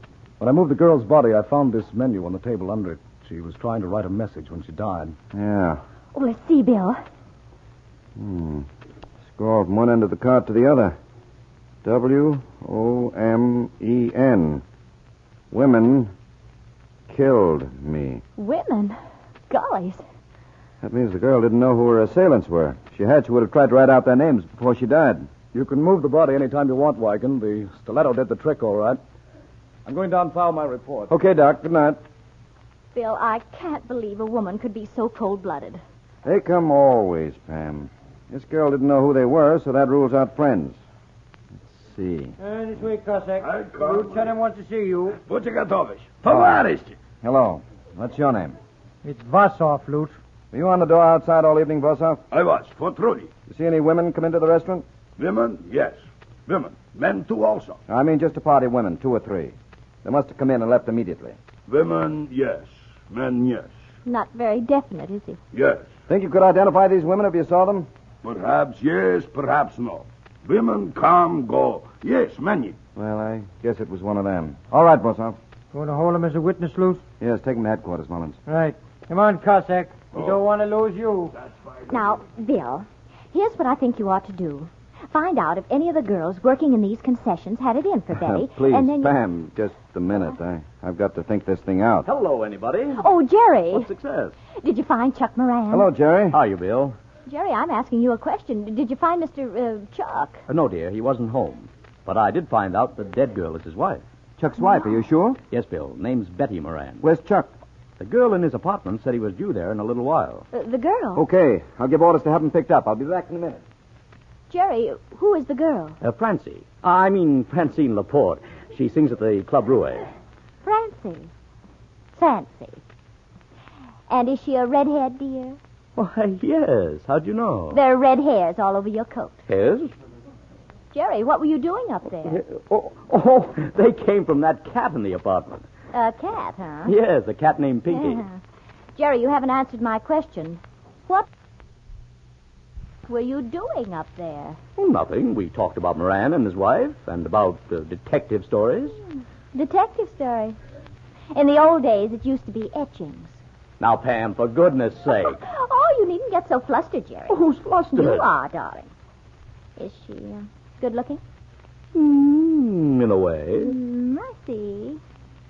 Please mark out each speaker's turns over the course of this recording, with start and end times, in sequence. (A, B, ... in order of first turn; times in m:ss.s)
0:00.4-0:05.2 A
0:05.3-0:05.8 B
0:06.1-0:07.0 C
0:08.2-0:08.6 B
0:09.3-0:11.0 B
0:11.8-0:14.6 B
0:15.5-0:16.1 B
0:17.1-0:18.2 B
0:18.4-0:19.0 C
0:19.5-0:20.0 C
0:20.8-0:25.3 B
0:25.5-0:29.0 A
0:29.8-0:31.1 A
0:31.1-0:32.0 B
0:32.9-0:35.8 C
0:36.2-0:40.8 B
0:41.6-0:42.4 B
0:42.4-0:45.2 D
0:43.4-0:44.4 E
0:45.2-0:47.0 E
0:46.3-0:46.6 B
0:47.2-0:48.6 B
0:49.0-0:50.1 D
0:50.5-0:52.2 B
0:52.3-0:53.3 E
0:53.5-0:54.8 B
0:55.2-0:57.8 E
0:57.9-1:01.4 B
1:01.7-1:03.7 E
1:04.0-1:05.4 C
1:05.5-1:05.9 E
1:06.1-1:07.9 B
1:08.2-1:12.8 E
1:13.0-1:15.4 B
1:15.7-1:17.0 D
1:17.2-1:18.4 B
1:18.5-1:21.3 D
1:20.1-1:20.4 E
1:21.4-1:22.0 E
1:21.9-1:29.1 C
1:28.1-1:32.1 B
1:32.0-1:33.0 F
1:33.0-1:33.9 C
1:33.7-1:34.4 F
1:34.6-1:35.9 C
1:35.7-1:36.4 B
1:36.3-1:37.0 F
1:37.2-1:40.4 C
1:40.5-1:44.0 F
1:44.4-1:45.4 B
1:45.5-1:47.0 F
1:47.0-1:47.5 B
1:48.0-1:50.4 F
1:50.5-1:51.2 C
1:51.1-1:53.6 B
1:54.5-1:56.0 C
1:56.0-2:00.1 F
2:00.6-2:01.3 C
2:02.1-2:02.8 C
2:04.1-2:05.6 C
2:06.0-2:07.8 F
2:07.7-2:09.4 C
2:09.5-2:09.9 F
2:10.9-2:12.4 C
2:12.2-2:15.6 F
2:15.9-2:16.9 C
2:16.8-2:18.2 F
2:17.9-2:18.4 C
2:19.0-2:21.2 C
2:23.1-2:24.6 C
2:24.8-2:29.0 F
2:29.5-2:30.6 C
2:31.3-2:33.4 C
2:33.8-2:35.4 F
2:35.1-2:37.4 C
2:37.3-2:38.2 F
2:37.9-2:38.9 C
2:39.8-2:41.2 C
2:41.9-2:43.8 F
2:43.6-2:45.0 C